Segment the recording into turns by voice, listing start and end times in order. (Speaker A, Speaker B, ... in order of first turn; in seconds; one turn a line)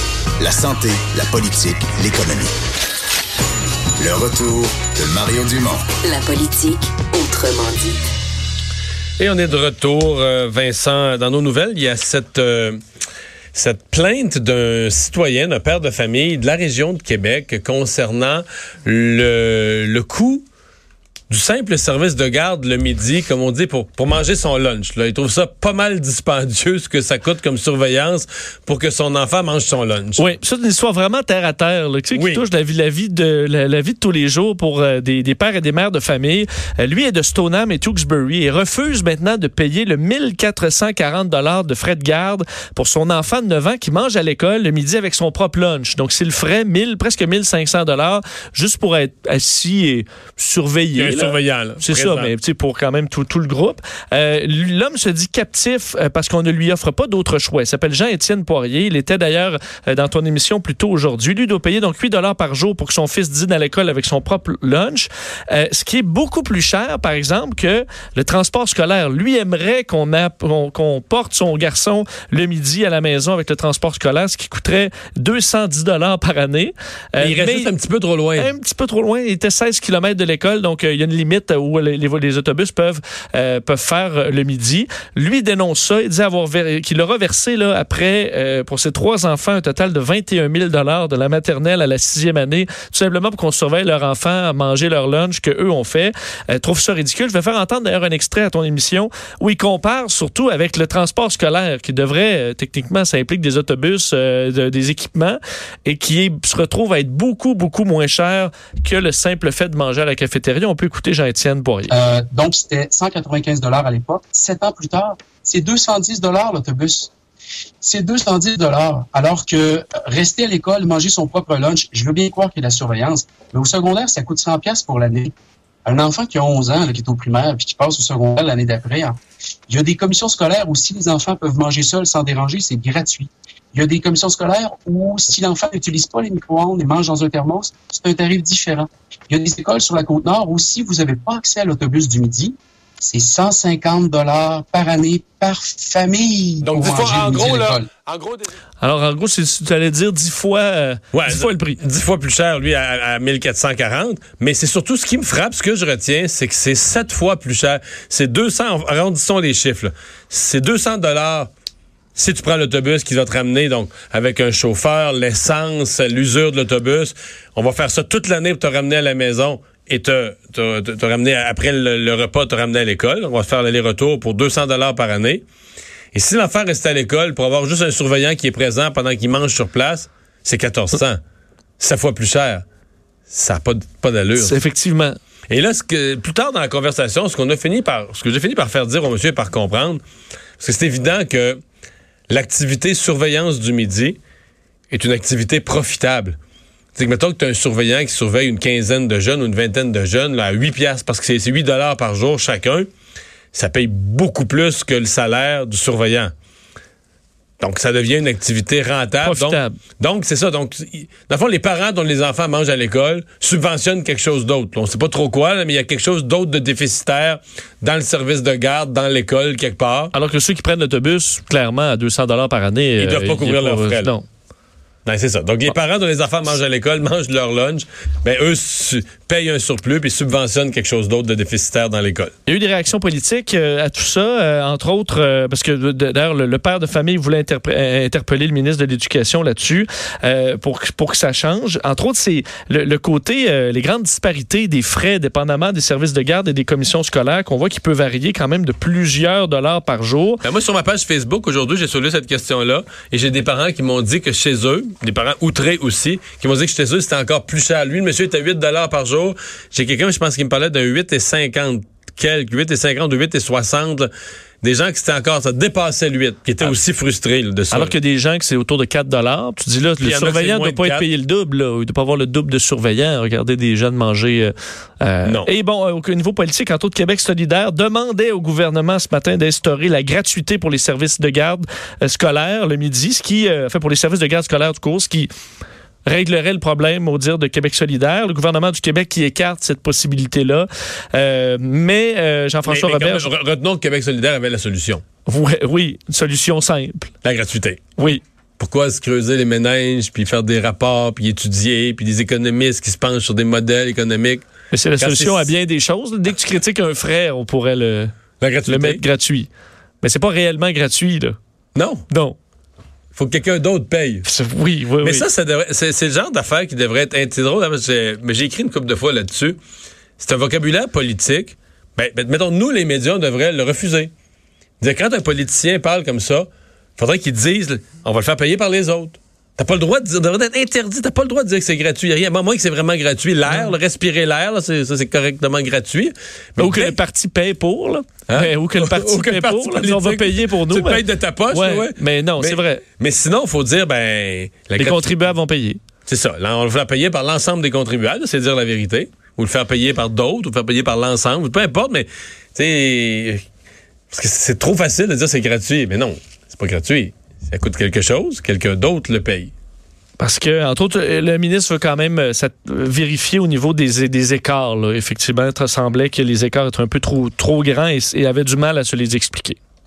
Speaker A: 0.4-2.5
Speaker A: 4.0-5.9
Speaker B: 6.0-8.0
Speaker C: 9.2-12.8
Speaker C: 13.5-20.4
Speaker C: 21.3-30.3
Speaker D: 30.2-77.7
Speaker C: 32.1-32.4
Speaker C: 51.0-52.3
Speaker C: 77.2-78.5
Speaker D: 78.3-111.9
Speaker E: 111.9-117.1
Speaker E: 117.8-125.3
Speaker E: 125.8-129.2
Speaker E: 129.7-147.9
Speaker C: 146.6-148.6
Speaker D: 148.8-151.8
Speaker C: 151.1-161.5
Speaker C: 162.1-175.4
Speaker C: 176.1-181.2
Speaker C: 181.8-182.6
Speaker C: 183.3-184.6
Speaker D: 184.4-185.2
Speaker C: 185.5-190.0
Speaker C: 190.6-191.6
Speaker C: 192.3-194.2
Speaker C: 194.9-196.4
Speaker C: 196.9-202.9
Speaker C: 203.5-206.3
Speaker C: 207.6-220.1
Speaker D: 209.2-209.8
Speaker D: 220.1-224.2
Speaker C: 223.0-224.1
Speaker C: 225.1-232.3
Speaker D: 232.5-250.4
Speaker C: 250.4-264.1
Speaker C: 264.6-267.9
Speaker D: 267.7-285.3
Speaker C: 270.0-271.1
Speaker D: 286.0-293.3
Speaker C: 292.6-295.0
Speaker D: 295.2-297.1
Speaker C: 297.2-297.8
Speaker D: 298.0-298.2
Speaker C: 298.6-304.4
Speaker D: 304.7-308.1
Speaker C: 305.0-305.5
Speaker C: 308.4-309.0
Speaker D: 308.6-309.5
Speaker D: 310.0-311.4
Speaker C: 311.7-312.0
Speaker D: 312.1-312.4
Speaker C: 313.1-314.2
Speaker D: 314.2-315.2
Speaker C: 315.0-319.6
Speaker C: 320.2-324.1
Speaker C: 324.8-326.5
Speaker C: 327.0-336.9
Speaker D: 336.6-342.8
Speaker C: 338.3-345.2
Speaker D: 344.8-345.8
Speaker C: 346.1-353.4
Speaker C: 354.1-359.5
Speaker D: 360.2-369.6